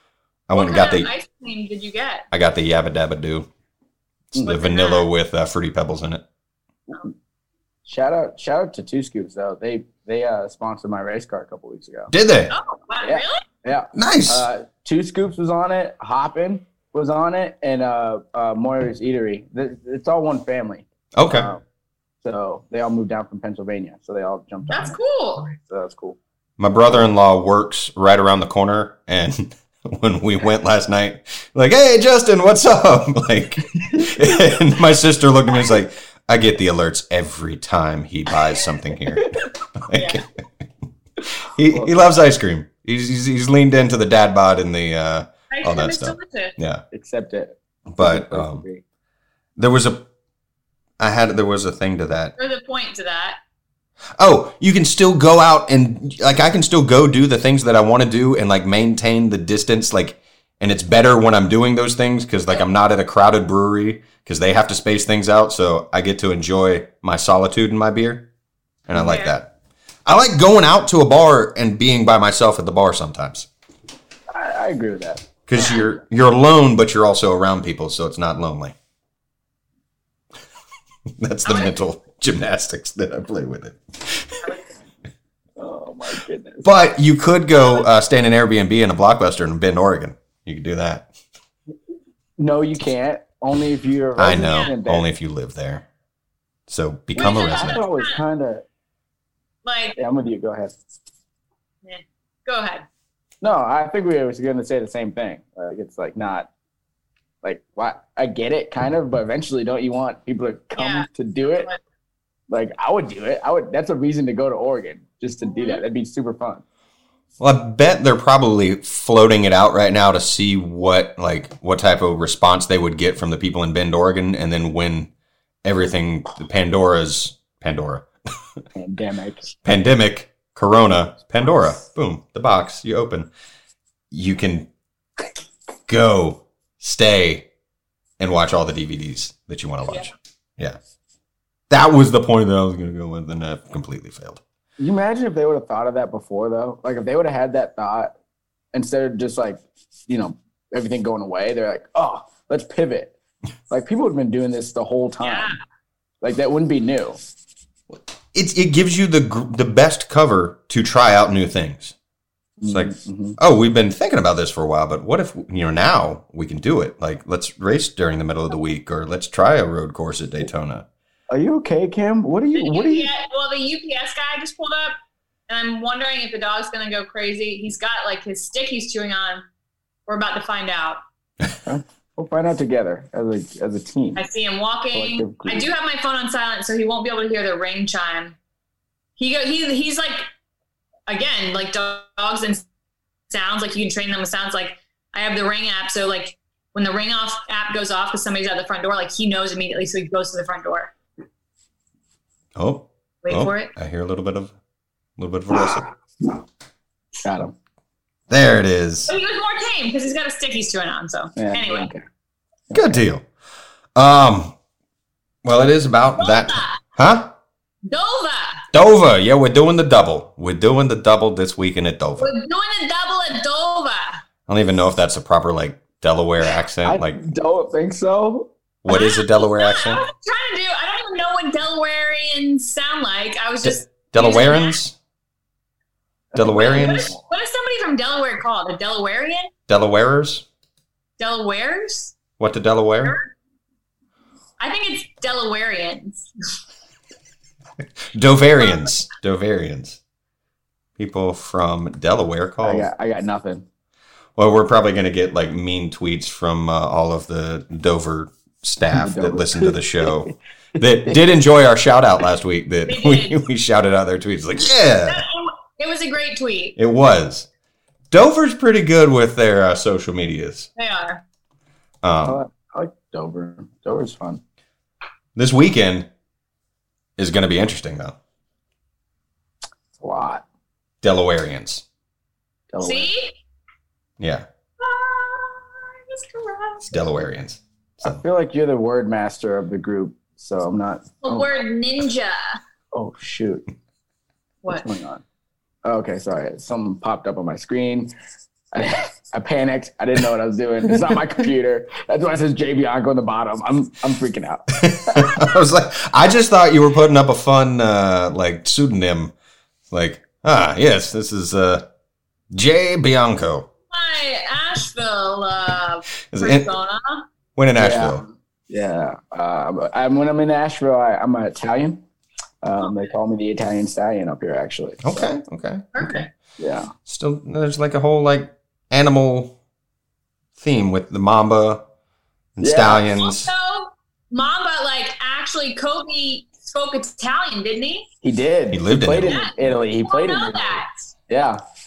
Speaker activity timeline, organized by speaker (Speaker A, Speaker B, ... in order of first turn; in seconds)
Speaker A: 0.5-1.1, 2.3-3.5, 4.3-6.2, 12.1-12.5, 13.9-14.5, 21.1-21.5, 26.6-40.2, 41.4-46.8, 47.9-48.6, 49.6-50.1, 51.0-52.3, 54.2-68.3, 68.9-69.5, 70.1-73.5, 75.5-78.8, 81.2-84.4, 86.6-91.1, 94.2-95.8, 96.7-97.8, 117.4-125.1, 125.6-128.1, 129.7-133.3, 134.1-134.7, 135.9-137.5, 138.2-140.8, 141.7-144.4, 157.9-161.9, 162.7-170.9, 202.6-204.5, 205.2-205.8, 208.3-209.1, 212.7-213.2, 213.9-214.6, 215.4-217.3, 218.7-222.3, 224.5-227.2, 228.8-230.0, 233.6-235.0, 236.3-237.1, 239.7-240.4, 242.4-243.2, 248.1-250.0, 251.0-252.9, 254.4-265.2, 266.8-267.5, 268.1-270.7, 272.0-272.4, 275.4-276.1, 277.2-278.2, 281.0-281.9, 284.2-284.5, 286.9-288.2, 304.8-309.3, 309.9-311.9, 312.5-313.7, 316.3-316.7, 317.6-318.2, 325.0-326.3, 327.1-329.6, 330.6-331.8, 332.6-333.5, 338.7-339.5
Speaker B: 0.5-2.3, 4.4-5.1, 12.5-13.4, 24.7-25.5, 39.9-40.2, 45.5-46.6, 52.4-53.4, 69.0-69.3, 75.6-75.9, 81.5-81.8, 87.5-87.9, 94.4-94.7, 97.2-98.2, 99.7-100.0, 101.8-102.9, 110.8-111.8, 115.4-115.8, 155.2-155.6, 172.6-174.9, 175.5-179.4, 180.1-181.0, 184.2-188.4, 189.2-190.2, 191.1-192.6, 193.3-200.9, 203.2-203.7, 209.1-211.9, 216.2-216.8, 217.9-218.6, 222.2-224.2, 228.9-234.8, 236.4-239.5, 241.2-242.2, 243.0-243.3, 244.6-246.3, 262.9-263.4, 265.1-266.8, 270.8-271.2, 282.8-283.4, 284.8-287.1, 291.2-292.6, 313.9-317.3, 325.9-326.3, 333.1-338.1, 339.2-341.1
Speaker C: 7.9-12.1, 13.0-21.6, 22.2-26.2, 33.9-34.4, 39.2-39.5, 41.7-42.2, 46.9-48.8, 74.3-75.2, 85.6-86.7, 92.4-95.1, 97.2-98.7, 100.0-100.8, 103.4-106.5, 107.4-111.7, 112.5-116.6, 128.8-129.6, 144.8-148.1, 148.7-153.2, 153.7-155.5, 156.2-157.2, 162.6-163.4, 171.3-173.1, 181.7-184.2, 184.9-185.7, 205.5-206.4, 207.2-207.6, 211.4-212.0, 212.7-213.0, 226.8-228.5, 236.3-237.2, 252.6-253.7, 258.9-260.4, 272.3-274.4, 280.0-280.4, 282.7-283.1, 288.0-291.6, 292.9-293.6, 294.7-295.2, 295.9-298.1, 298.7-305.4, 317.8-322.0, 322.6-325.3, 326.6-326.9, 332.6-333.1, 338.2-341.6